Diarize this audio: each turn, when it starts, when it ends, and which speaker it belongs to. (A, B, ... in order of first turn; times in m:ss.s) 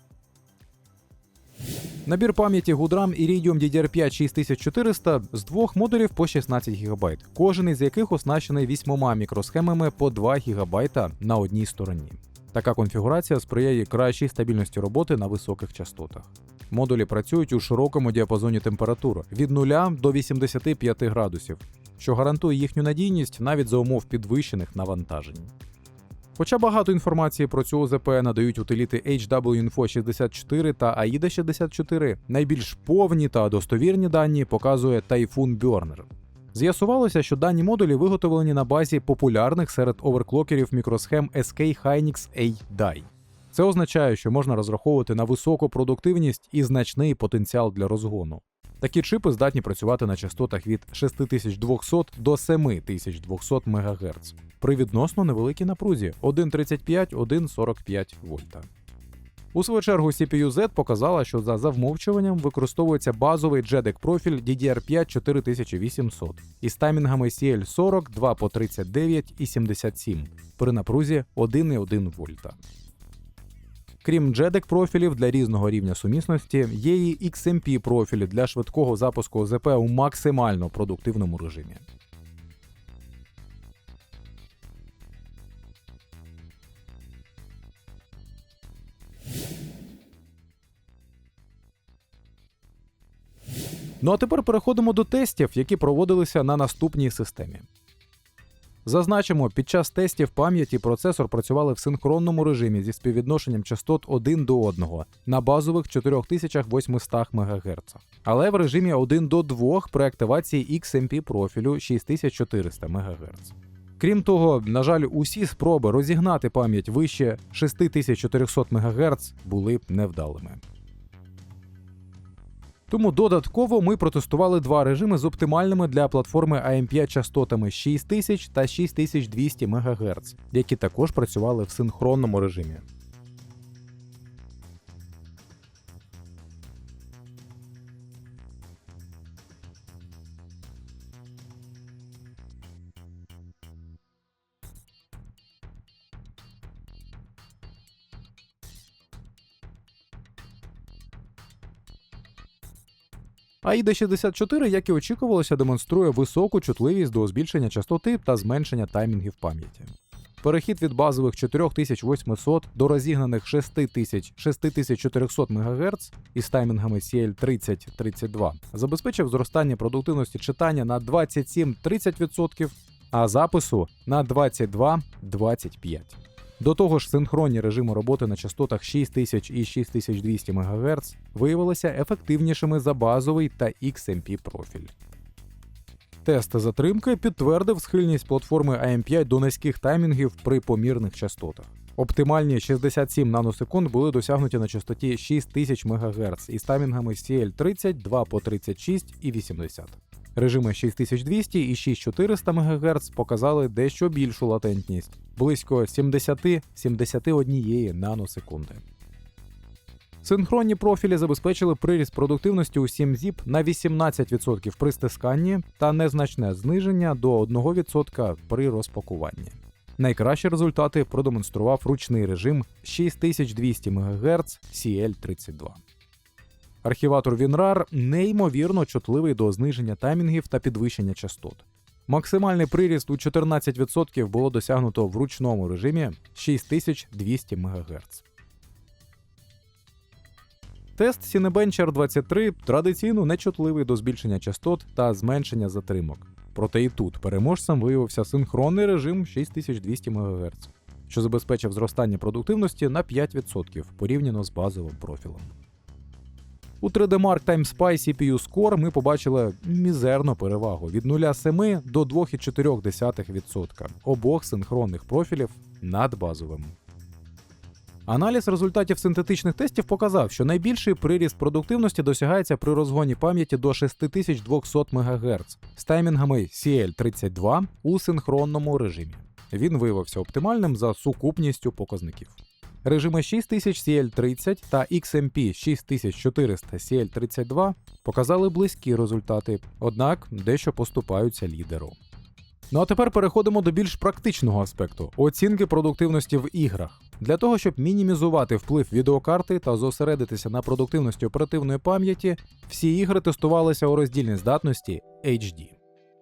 0:02.1-0:25.5 A
0:26.4-0:58.7 A
0:59.5-1:12.6 A
1:14.0-1:21.8 A
1:34.0-1:37.7 A
1:38.8-2:00.6 A
2:02.9-2:12.8 A
2:33.6-3:04.9 A
3:06.2-3:28.8 A
3:30.2-3:45.8 A
3:46.8-3:58.2 A
4:01.0-4:15.5 A
4:16.8-4:26.8 A
4:28.1-4:52.0 A
4:52.7-5:05.8 A